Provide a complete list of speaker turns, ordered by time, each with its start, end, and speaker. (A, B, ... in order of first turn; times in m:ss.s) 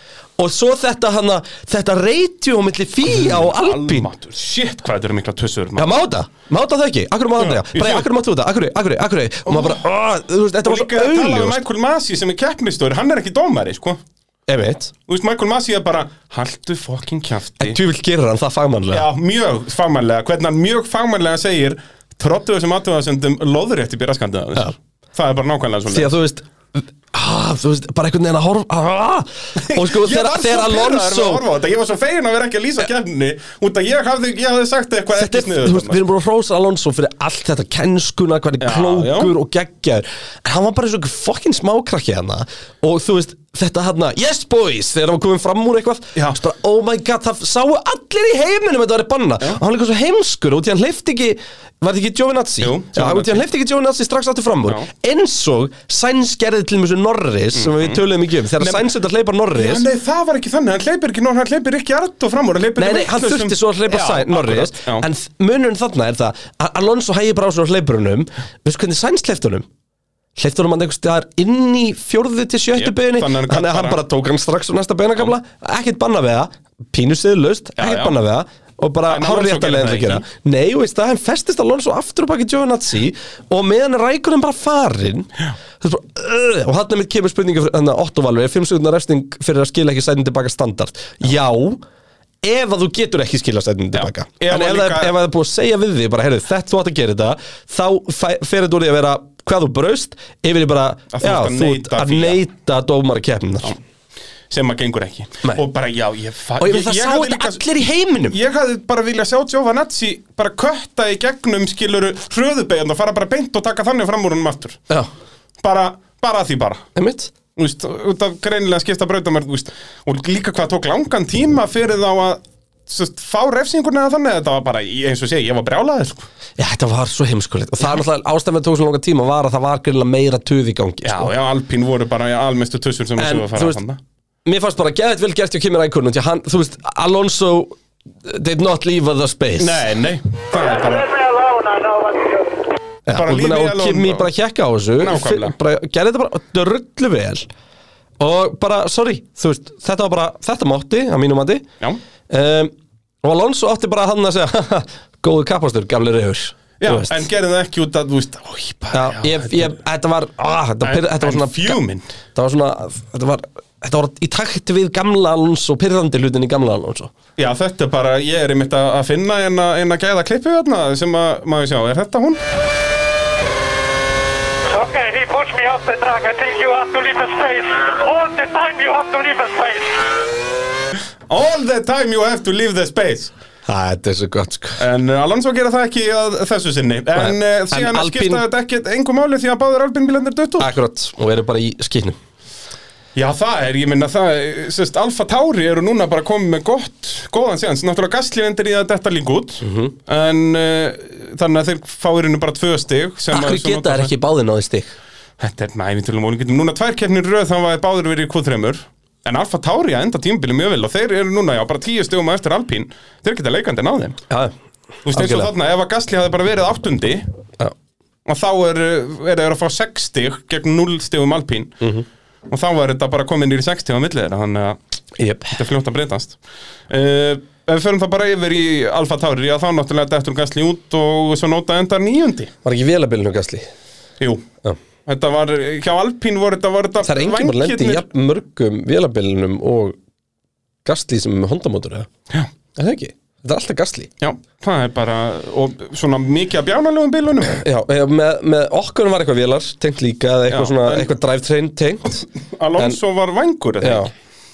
0:00.4-0:04.1 A
0:03.1-0:06.0 B
0:05.8-0:11.6 A
0:07.4-0:08.1 B
0:09.5-0:09.8 B
0:10.6-0:14.0 B
0:14.5-0:14.9 A
0:15.1-0:17.8 B
0:17.6-0:19.1 A
0:18.9-0:26.1 B
0:25.9-0:31.4 A
0:29.6-0:36.0 B
0:35.2-0:59.9 A
0:38.6-0:39.3 B
0:52.6-0:53.4 B
0:57.5-0:58.0 B
0:58.6-0:58.9 B
0:59.5-1:05.1 B
1:02.8-1:09.7 A
1:10.4-1:31.8 A
1:12.8-1:14.0 B
1:17.8-1:18.2 B
1:19.1-1:20.2 B
1:32.4-1:43.8 A
1:33.9-1:35.2 B
1:41.1-1:42.4 B
1:44.5-1:47.6 B
1:46.6-1:48.4 A
1:48.3-1:54.8 B
1:55.6-1:56.9 B
1:57.0-1:57.3 A
1:57.6-2:06.3 B
2:06.6-2:11.3 A
2:11.0-2:14.0 B
2:13.2-2:13.8 A
2:14.4-2:19.8 A
2:19.6-2:21.1 B
2:20.7-2:22.7 C
2:23.1-2:27.5 A
2:23.1-2:24.3 B
2:25.0-2:25.6 B
2:28.2-2:31.7 A
2:32.3-2:37.3 A
2:36.8-2:39.8 B
2:38.9-2:41.8 A
2:40.8-2:42.2 B
2:42.4-2:47.1 A
2:47.4-2:52.4 B
2:54.7-3:00.2 C
3:01.3-3:03.3 B
3:03.7-3:04.8 A
3:04.8-3:10.7 B
3:07.2-3:08.4 A
3:10.6-3:12.2 A
3:13.2-3:24.1 B
3:19.6-3:19.9 A
3:23.3-3:24.9 A
3:25.4-3:34.2 B
3:35.1-3:37.3 B
3:35.1-3:35.5 A
3:38.3-3:41.8 B
3:42.5-3:44.8 B
3:45.2-3:45.6 A
3:45.5-3:46.4 B
3:46.9-3:52.5 B
3:52.6-3:53.7 A
3:54.2-3:54.5 B
3:55.1-3:58.1 B
3:57.0-4:00.0 A
4:00.8-4:02.1 A
4:02.8-4:04.1 A
4:04.2-4:07.6 B
4:07.5-4:12.3 A
4:10.5-4:11.1 B
4:12.4-4:14.1 B
4:13.8-4:14.1 A